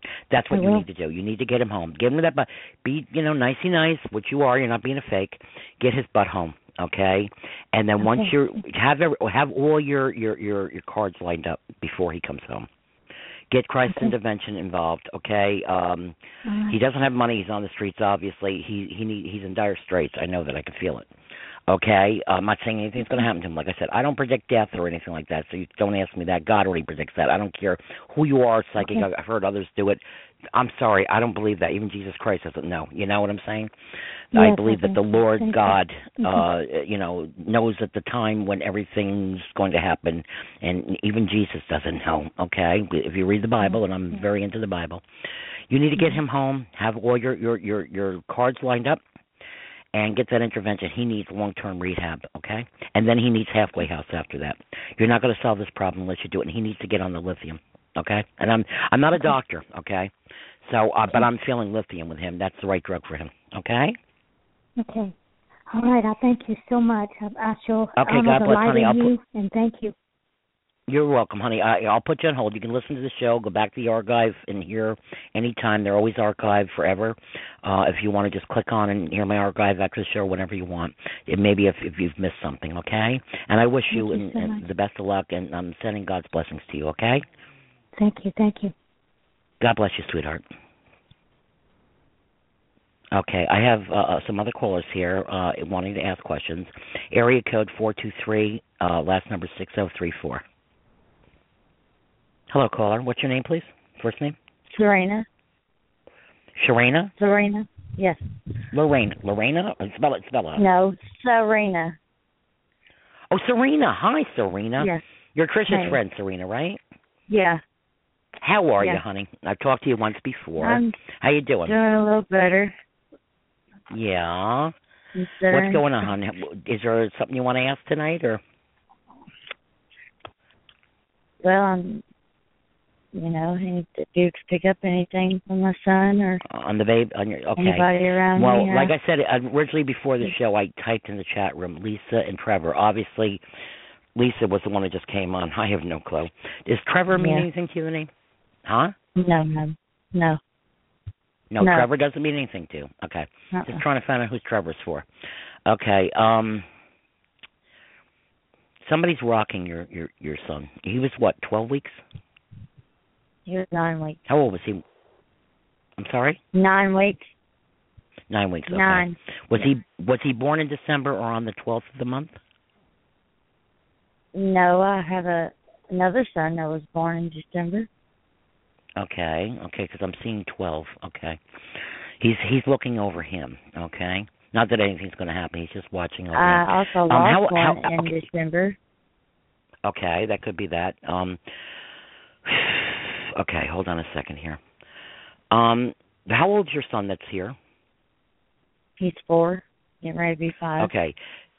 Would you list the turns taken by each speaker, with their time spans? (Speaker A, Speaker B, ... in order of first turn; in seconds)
Speaker A: 0.3-12.7, 13.5-16.2, 16.7-21.1, 21.7-30.0, 30.5-33.7, 34.3-45.0, 45.7-49.0, 49.9-60.1, 60.6-64.0, 68.0-69.1, 70.9-87.2, 89.6-90.5, 93.1-100.4, 102.5-104.4, 106.6-107.1, 108.7-110.6, 113.3-116.8, 118.4-121.7, 123.9-124.7, 125.5-128.4, 136.5-143.4, 144.2-148.1, 148.7-148.9, 151.5-155.1, 155.7-156.7, 158.8-162.0, 164.3-164.8, 166.0-166.4, 168.3-172.4, 179.0-188.2, 189.8-191.4, 192.5-194.6, 195.5-197.6, 200.8-201.2
Speaker B: 0.5-0.8, 8.0-8.3, 16.5-16.8, 28.8-29.1, 34.4-36.5, 64.8-65.1, 65.7-70.0, 83.9-84.6, 88.0-88.7
Speaker C: 104.7-105.3, 107.2-108.2, 110.6-112.0, 115.7-116.0, 117.3-117.6, 120.6-121.0, 121.7-122.7, 125.2-125.8, 131.4-132.0, 133.1-136.4, 137.6-138.9, 147.2-147.5, 149.2-150.4, 151.6-151.9, 153.6-153.8, 163.5-164.2, 166.5-167.3, 168.7-169.7, 174.3-177.9, 186.3-188.8, 199.0-200.9